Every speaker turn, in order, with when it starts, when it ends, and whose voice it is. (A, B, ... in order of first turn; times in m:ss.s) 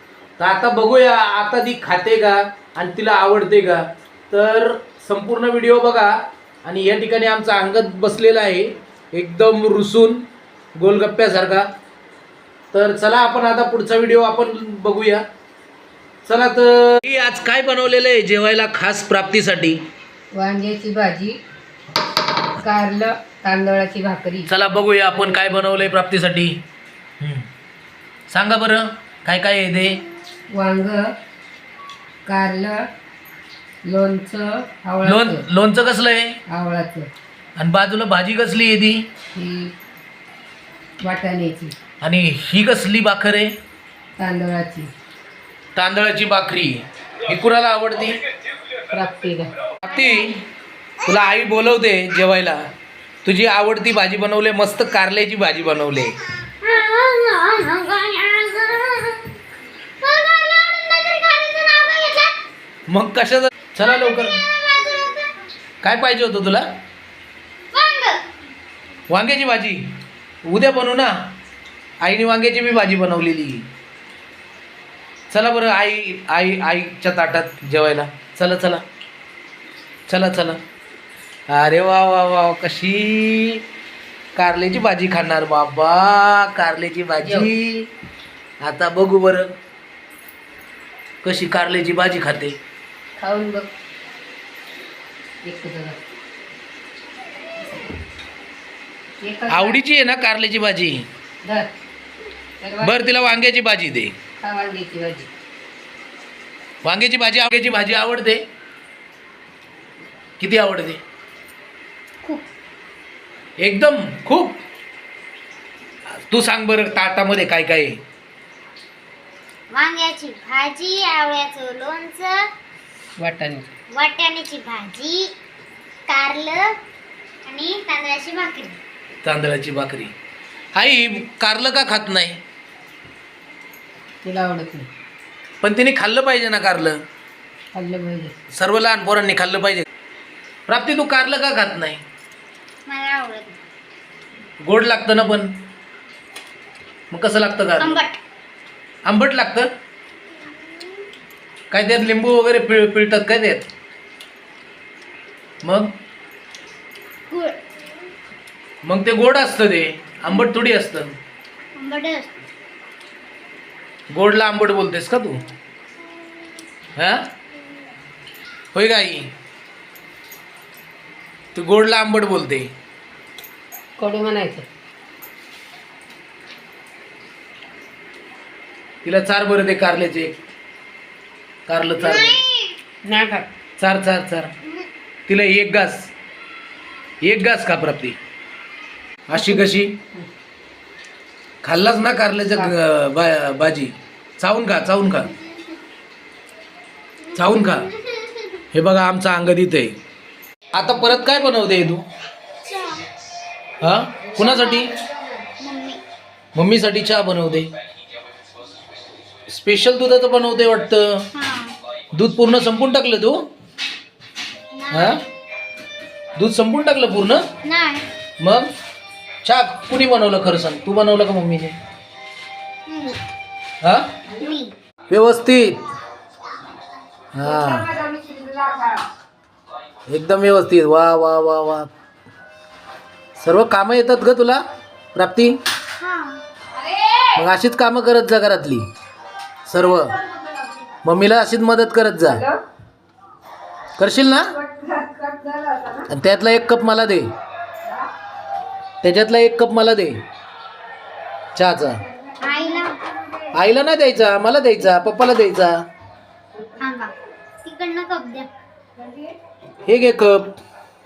0:00.4-0:06.1 A
0:06.6-0:10.2 A
0:10.8-0:11.7 A
0:12.7-0:15.2 A
0:16.2-0:19.8 A
0:20.3-0:21.4 B
0:22.6-0:24.5 B
0:24.5-0:26.6 A
0:27.2-0:27.5 A
0:28.3-0:30.0 A
0:30.5-0:31.0 B
0:32.2-0:32.8 B
0:33.8-0:35.4 B
0:35.0-0:36.4 A
0:36.5-0:37.1 B
0:37.6-0:39.1 A
0:39.3-0:39.7 B
0:41.0-0:41.7 B
0:42.0-0:43.5 A
0:44.2-0:44.9 B
0:45.8-0:48.2 A
0:48.9-0:49.5 B
0:49.8-0:50.4 A
0:51.0-0:52.6 A
0:53.2-0:56.2 A
0:56.6-0:59.4 C
1:00.0-1:02.4 C
1:02.9-1:04.4 A
1:03.8-1:05.3 C
1:05.8-1:06.7 A
1:07.7-1:08.2 C
1:09.1-1:09.9 A
1:10.4-1:11.2 A
1:12.0-1:13.6 A
1:15.3-1:18.8 A
1:20.1-1:20.6 A
1:21.5-1:23.6 A
1:24.4-1:27.9 A
1:27.2-1:27.5 B
1:28.6-1:29.5 A
1:31.2-1:32.6 A
1:33.2-1:33.7 B
1:35.4-1:36.0 B
1:39.2-1:39.8 B
1:39.5-1:41.0 A
1:41.4-1:41.8 B
1:42.6-1:43.0 B
1:42.8-1:44.1 A
1:44.4-1:45.3 B
1:46.8-1:48.4 A
1:50.4-1:51.0 A
1:53.6-1:54.6 A
1:56.3-1:58.0 A
1:59.7-2:02.5 C
2:03.2-2:03.7 B
2:03.9-2:05.3 C
2:06.1-2:06.8 C
2:07.4-2:08.8 C
2:09.2-2:10.1 A
2:10.7-2:12.4 A
2:14.2-2:14.9 B
2:15.6-2:17.0 A
2:17.7-2:18.4 B
2:18.6-2:19.8 A
2:20.7-2:22.0 A
2:22.9-2:23.6 C
2:24.6-2:25.5 A
2:27.1-2:28.0 A
2:27.8-2:28.2 C
2:29.0-2:29.7 A
2:31.7-2:33.7 A
2:35.6-2:35.9 A
2:37.3-2:37.6 C
2:38.8-2:41.1 A
2:41.8-2:42.3 C
2:44.1-2:45.4 A
2:47.0-2:47.2 A
2:48.7-2:49.3 A
2:51.5-2:52.7 A
2:54.0-2:54.6 B
2:59.0-3:00.4 A
3:01.7-3:02.4 A
3:01.9-3:02.8 C
3:03.0-3:03.5 B
3:03.8-3:04.5 A
3:05.3-3:06.1 A
3:07.2-3:08.2 A
3:09.3-3:10.0 A
3:09.3-3:10.2 B
3:11.6-3:15.3 A
3:17.3-3:17.9 A
3:18.7-3:20.0 A
3:20.7-3:22.0 A
3:22.6-3:23.0 C
3:23.8-3:24.9 A
3:24.4-3:24.9 C
3:25.6-3:26.0 C
3:26.5-3:27.7 A
3:29.5-3:31.3 A
3:31.3-3:31.7 C
3:32.1-3:33.4 A
3:34.7-3:35.2 C
3:34.9-3:35.2 A
3:36.4-3:37.5 A
3:37.6-3:38.0 C
3:38.4-3:38.7 A
3:39.4-3:41.8 A
3:42.9-3:43.2 C
3:43.8-3:44.1 A
3:44.3-3:44.7 C
3:45.1-3:45.9 A
3:47.3-3:47.9 A
3:47.5-3:49.0 B
3:50.1-3:51.9 A
3:53.4-3:54.6 A
3:55.1-3:55.6 A
3:56.0-3:56.4 C
3:56.8-3:57.3 B
3:57.4-3:58.8 A
3:59.7-4:00.2 A
4:01.0-4:02.4 A
4:02.3-4:02.6 B
4:04.0-4:04.5 A
4:04.6-4:06.1 B
4:06.1-4:07.3 A
4:09.0-4:10.2 A
4:11.5-4:12.0 A
4:12.4-4:13.0 C
4:13.5-4:15.8 A
4:16.8-4:17.1 C
4:17.6-4:18.5 C
4:19.8-4:20.6 A